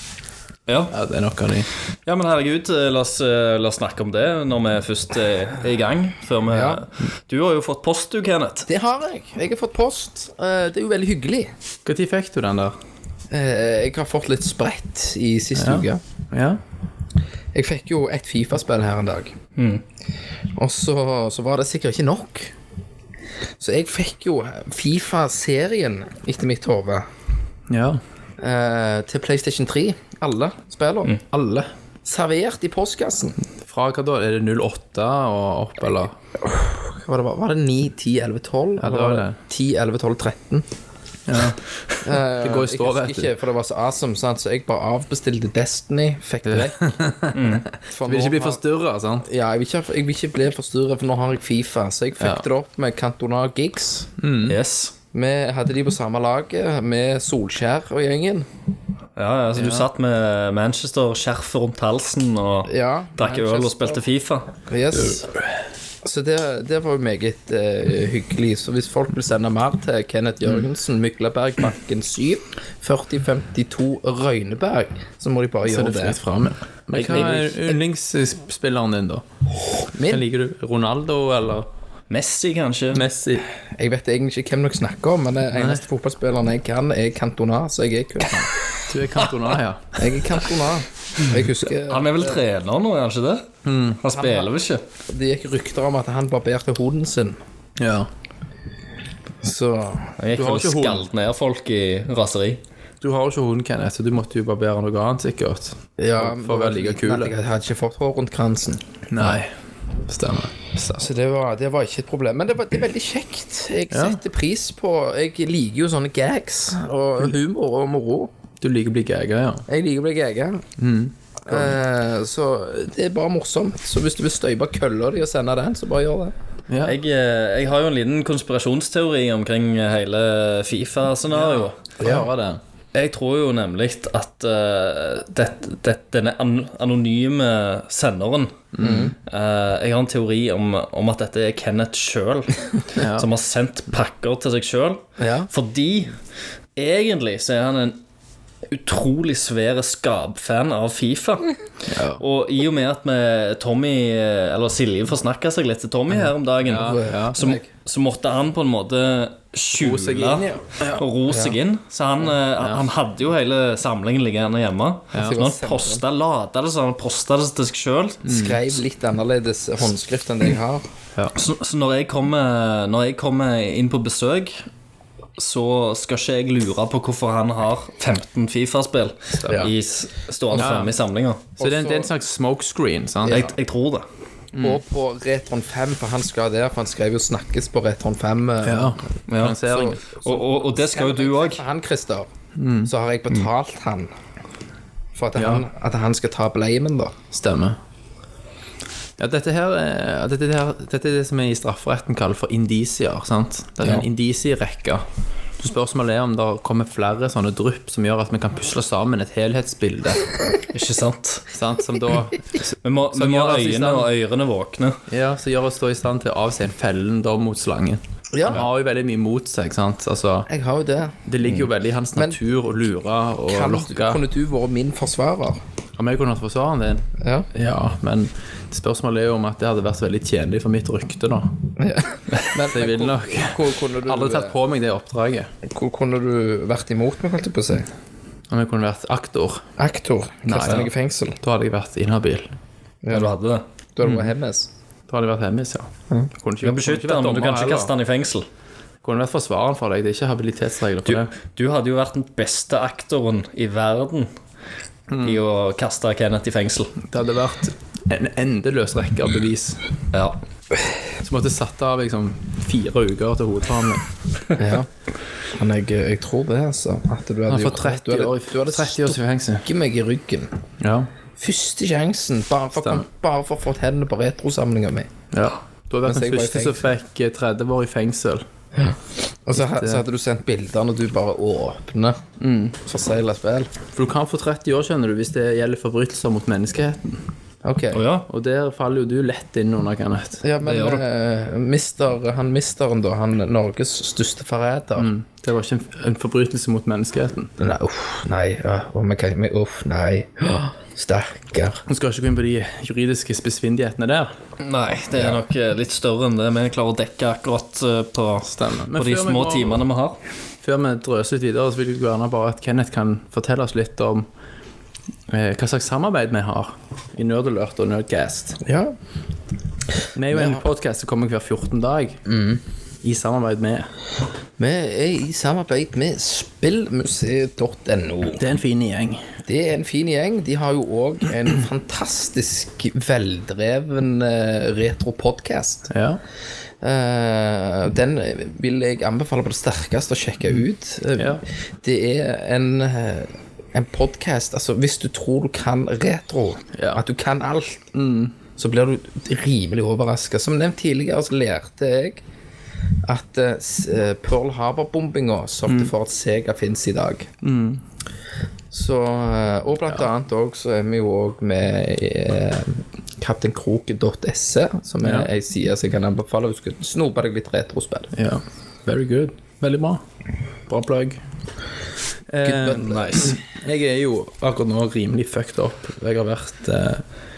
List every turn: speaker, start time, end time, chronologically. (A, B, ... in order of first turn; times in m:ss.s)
0:00.7-0:00.9 A
0:00.9-0:01.7 B
0:02.1-0:08.7 A
0:06.5-0:06.8 C
0:08.7-0:11.5 C
0:11.8-0:12.8 B
0:13.3-0:16.0 C
0:15.6-0:16.6 B
0:17.5-0:19.4 C
0:19.6-0:19.8 A
0:20.5-0:22.5 C
0:23.6-0:27.1 C
0:27.7-0:28.0 B
0:28.4-0:33.4 C
0:33.6-0:36.2 B
0:36.4-0:40.7 C
0:38.8-0:39.4 B
0:41.3-0:41.6 B
0:42.0-0:46.9 C
0:42.1-0:43.3 B
0:46.4-0:49.2 B
0:47.3-0:47.7 A
0:47.9-0:48.6 C
0:49.2-0:54.1 C
0:52.2-0:52.4 B
0:54.2-0:54.6 B
0:54.5-0:54.9 A
0:55.1-0:58.5 C
0:59.2-1:04.5 A
0:59.6-0:59.9 B
1:02.7-1:04.0 C
1:04.7-1:05.2 C
1:06.0-1:16.2 C
1:15.6-1:19.2 B
1:16.9-1:17.7 A
1:19.9-1:20.2 C
1:20.0-1:21.7 B
1:22.1-1:23.1 A
1:22.9-1:23.5 B
1:23.8-1:28.5 C
1:25.5-1:25.8 B
1:28.3-1:30.4 B
1:30.0-1:32.4 C
1:31.7-1:34.8 A
1:33.6-1:34.0 B
1:34.1-1:34.5 C
1:35.1-1:37.4 C
1:37.8-1:38.1 B
1:39.4-1:40.1 C
1:40.2-1:42.6 A
1:40.3-1:41.1 B
1:43.0-1:47.3 B
1:46.0-1:48.8 C
1:49.1-1:51.0 B
1:51.0-1:58.3 C
1:53.9-1:54.2 B
1:58.6-1:59.6 B
1:59.7-2:00.7 C
2:00.8-2:01.8 B
2:01.5-2:06.3 C
2:06.7-2:07.0 B
2:06.8-2:11.8 A
2:11.3-2:12.6 B
2:12.9-2:18.7 A
2:18.7-2:19.1 B
2:18.8-2:19.1 C
2:19.3-2:26.2 A
2:23.0-2:23.3 B
2:25.2-2:25.5 C
2:26.8-2:28.0 A
2:28.7-2:31.5 A
2:31.9-2:32.2 B
2:32.2-2:48.6 A
2:36.1-2:37.4 B
2:36.8-2:37.6 C
2:39.7-2:41.0 B
2:41.3-2:41.6 C
2:42.5-2:42.9 B
2:45.2-2:46.0 C
2:48.2-2:48.6 B
2:48.3-2:50.8 C
2:51.4-2:54.6 A
2:55.4-3:01.4 A
2:59.4-2:59.7 B
3:00.5-3:00.9 B
3:01.6-3:02.1 C
3:01.6-3:03.5 B
3:03.2-3:03.5 C
3:03.3-3:04.0 A
3:04.5-3:04.8 B
3:04.6-3:09.1 C
3:08.6-3:10.0 B
3:09.3-3:11.6 A
3:09.7-3:12.3 C
3:12.6-3:12.9 B
3:12.8-3:14.1 C
3:15.2-3:17.2 C
3:15.4-3:15.6 B
3:17.3-3:17.8 B
3:19.2-3:25.0 B
3:25.6-3:30.3 B
3:30.7-3:31.4 A
3:31.5-3:34.1 B
3:32.8-3:35.0 A
3:35.1-3:40.5 B
3:38.3-3:38.6 C
3:40.5-3:41.2 C
3:41.3-3:44.2 B
3:43.5-3:45.6 C
3:46.0-3:51.6 B
3:47.2-3:47.5 C
3:51.8-3:54.6 C
3:52.7-3:55.5 B
3:55.7-3:57.9 C
3:58.5-3:59.6 B
3:59.8-4:01.4 C
4:00.5-4:02.5 B
4:03.0-4:03.4 C
4:03.1-4:03.6 A
4:04.0-4:04.7 C
4:04.0-4:04.3 B
4:05.1-4:07.9 B
4:06.6-4:08.5 A
4:09.0-4:11.3 B
4:11.1-4:14.3 A
4:15.1-4:15.4 B
4:15.2-4:17.0 A
4:17.0-4:19.8 B
4:21.2-4:24.0 B
4:24.6-4:24.9 C
4:25.5-4:30.6 C
4:27.5-4:29.7 B
4:30.8-4:31.1 B
4:31.4-4:35.1 C
4:32.7-4:33.0 B
4:35.3-4:38.4 B
4:36.0-4:36.9 C
4:38.8-4:42.2 C
4:39.5-4:40.0 B
4:42.4-4:42.8 B
4:42.8-4:43.7 C
4:43.9-4:47.2 B
4:47.6-4:48.0 C
4:47.9-4:48.3 A
4:48.3-4:50.4 B
4:50.4-4:55.1 C
4:50.6-4:51.0 A
4:55.0-4:57.5 B
4:57.6-5:01.8 C
5:01.9-5:04.3 B
5:04.6-5:10.2 A
5:08.5-5:09.8 B
5:10.6-5:14.3 B
5:15.3-5:18.6 B
5:18.6-5:19.0 C
5:20.2-5:22.3 B
5:20.3-5:20.6 C
5:22.3-5:22.6 C
5:23.0-5:23.9 B
5:24.6-5:28.4 C
5:28.4-5:29.3 B
5:29.5-5:35.9 C
5:35.9-5:36.2 B
5:36.8-5:47.9 C
5:41.2-5:41.4 B
5:46.7-5:47.0 B
5:47.9-5:48.4 B
5:48.6-5:52.2 C
5:53.0-5:57.3 C
5:57.4-5:57.8 B
5:58.7-6:08.1 C
6:05.0-6:05.3 B
6:08.1-6:10.0 B
6:10.7-6:11.2 B
6:12.3-6:17.0 B
6:12.4-6:13.4 C
6:12.9-6:13.3 A